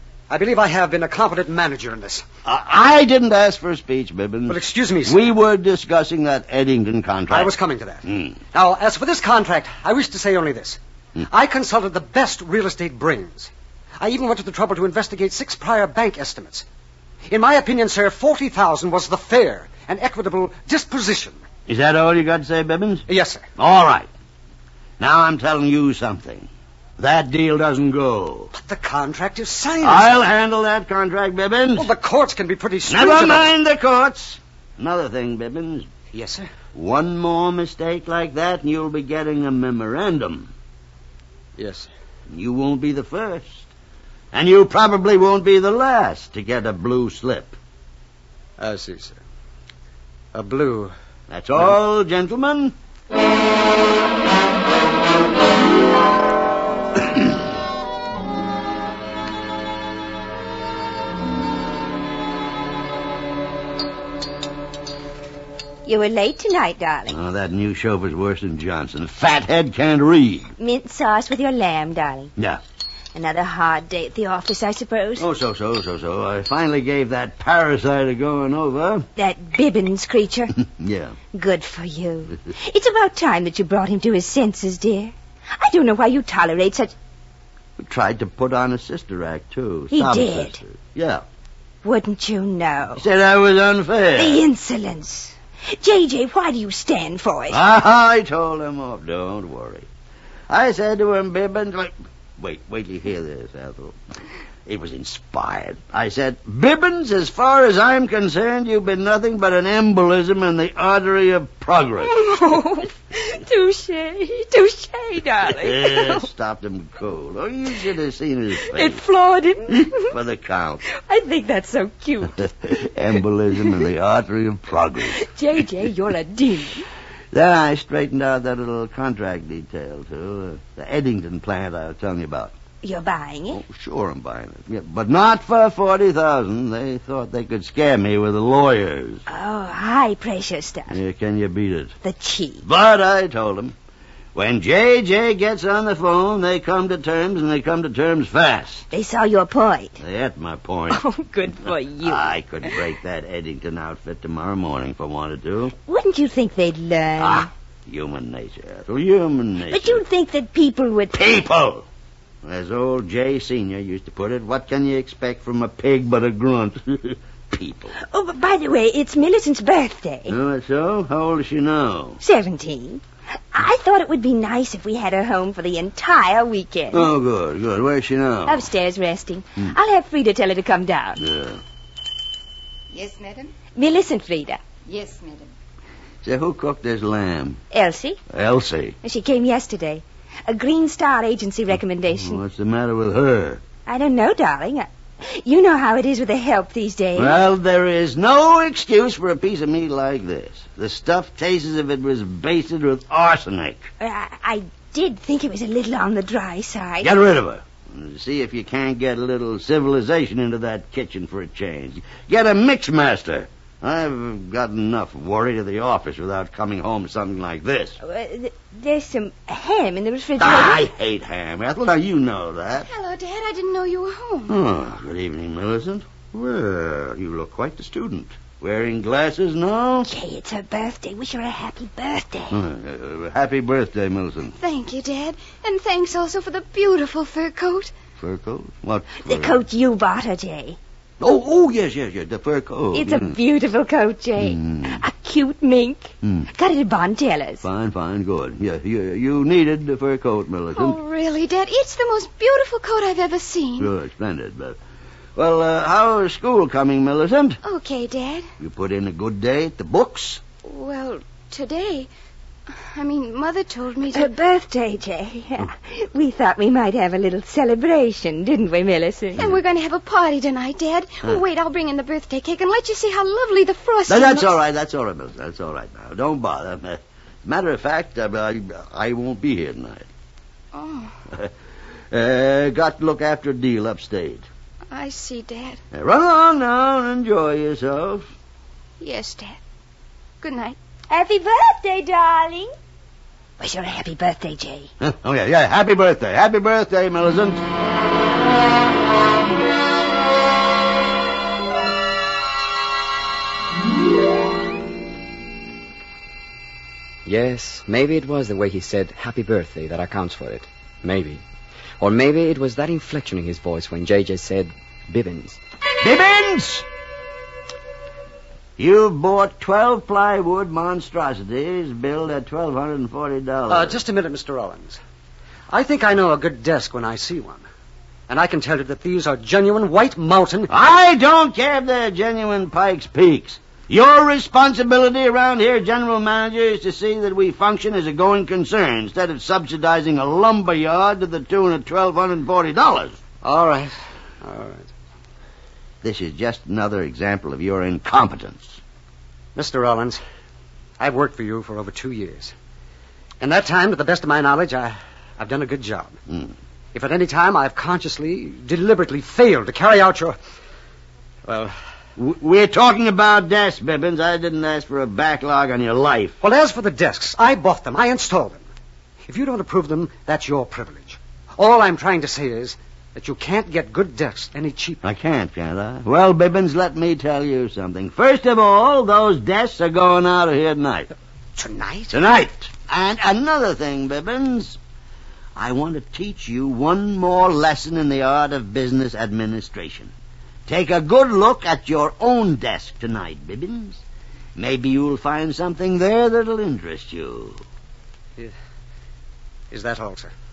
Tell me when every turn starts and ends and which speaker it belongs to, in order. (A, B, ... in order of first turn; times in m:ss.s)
0:00.3-0:02.2 A
0:02.4-0:07.5 B
0:04.5-0:05.2 A
0:07.3-0:16.6 A
0:08.0-0:08.4 B
0:17.3-0:21.4 A
0:21.7-0:23.0 B
0:23.1-0:23.4 A
0:23.6-0:24.1 B
0:25.0-0:28.5 B
0:28.5-0:30.2 A
0:29.8-0:31.9 B
0:31.8-0:33.5 A
0:32.9-0:35.9 B
0:36.1-0:36.5 A
0:36.7-0:40.5 B
0:41.6-0:41.9 A
0:42.3-0:43.7 B
0:44.3-0:47.6 B
0:48.6-0:49.2 A
0:50.3-0:50.9 A
0:51.3-0:52.7 B
1:05.8-1:07.2 C
1:07.1-1:10.5 B
1:10.6-1:12.3 C
1:13.1-1:15.2 C
1:15.2-1:19.1 B
1:19.2-1:20.5 C
1:20.6-1:21.2 B
1:21.3-1:26.9 C
1:27.8-1:31.2 B
1:29.9-1:30.6 C
1:31.8-1:33.0 C
1:33.0-1:34.4 B
1:34.1-1:37.6 C
1:37.5-1:39.9 B
1:40.5-1:44.0 B
1:44.6-1:52.1 B
1:52.0-1:56.3 C
1:55.4-1:59.0 B
1:58.6-2:00.1 C
1:59.7-2:00.8 B
2:00.9-2:02.5 C
2:02.4-2:05.2 B
2:05.1-2:06.9 C
2:07.3-2:12.5 B
2:12.8-2:13.6 C
2:13.5-2:19.2 B
2:19.3-2:21.0 C
2:20.9-2:21.9 B
2:22.0-2:22.6 C
2:22.6-2:23.7 B
2:24.3-2:28.9 B
2:28.9-2:30.0 C
2:30.0-2:31.0 B
2:30.9-2:32.8 C
2:31.7-2:35.7 B
2:35.8-2:37.5 C
2:37.2-2:40.0 B
2:39.7-2:41.2 C
2:41.1-2:41.9 B
2:42.4-2:47.9 B
2:48.0-2:50.4 C
2:50.3-2:52.2 B
2:52.2-2:57.1 C
2:56.9-2:58.7 B
2:58.4-3:01.2 C
3:01.2-3:01.6 B
3:02.9-3:03.5 D
3:03.7-3:04.6 C
3:04.9-3:05.5 D
3:06.2-3:07.6 B
3:07.7-3:08.2 C
3:08.3-3:09.0 B
3:09.0-3:12.4 C
3:12.1-3:13.6 B
3:13.8-3:17.4 C
3:17.2-3:23.8 B
3:24.0-3:27.1 C
3:27.0-3:38.0 B
3:38.0-3:40.8 C
3:40.4-3:42.9 B
3:42.8-3:44.6 D
3:44.5-3:50.1 B
3:50.0-3:52.6 C
3:52.5-3:54.5 B
3:54.6-3:57.9 D
3:58.2-3:59.6 B
3:59.2-4:00.8 C
4:01.2-4:03.4 B
4:02.9-4:07.6 C
4:04.4-4:05.0 B
4:06.2-4:06.5 B
4:07.6-4:11.0 B
4:10.7-4:13.9 D
4:13.8-4:14.8 B
4:15.4-4:17.6 B
4:17.6-4:18.5 D
4:18.6-4:20.4 B
4:20.6-4:22.1 D
4:22.7-4:24.3 D
4:24.1-4:29.4 C
4:29.4-4:34.5 D
4:34.1-4:40.1 B
4:40.7-4:41.1 D
4:42.1-4:44.4 B
4:44.9-4:45.8 D
4:45.9-4:48.3 B
4:49.0-4:49.6 D
4:50.4-4:50.8 D
4:51.1-4:52.7 C
4:53.6-4:54.9 C
4:55.0-4:57.6 B
5:07.2-5:11.4 E
5:12.0-5:15.6 E
5:16.0-5:16.8 B
5:18.8-5:24.0 B
5:23.7-5:25.0 A
5:25.7-5:27.6 A
5:28.3-5:30.7 A
5:30.7-5:43.2 B
5:43.4-5:44.9 A
5:46.0-5:48.8 B
5:49.6-5:50.2 A
5:51.0-5:52.5 A
5:53.4-5:56.2 A
5:56.3-5:56.5 B
5:56.9-6:00.4 A
6:01.4-6:01.7 A
6:02.2-6:06.4 B
6:06.4-6:08.6 A
6:09.2-6:15.0 A
6:15.0-6:21.1 B
6:21.6-6:22.1 A
6:22.1-6:24.8 B
6:25.6-6:30.1 B
6:30.7-6:34.0 B
6:34.6-6:37.6 B
6:39.7-6:40.3 A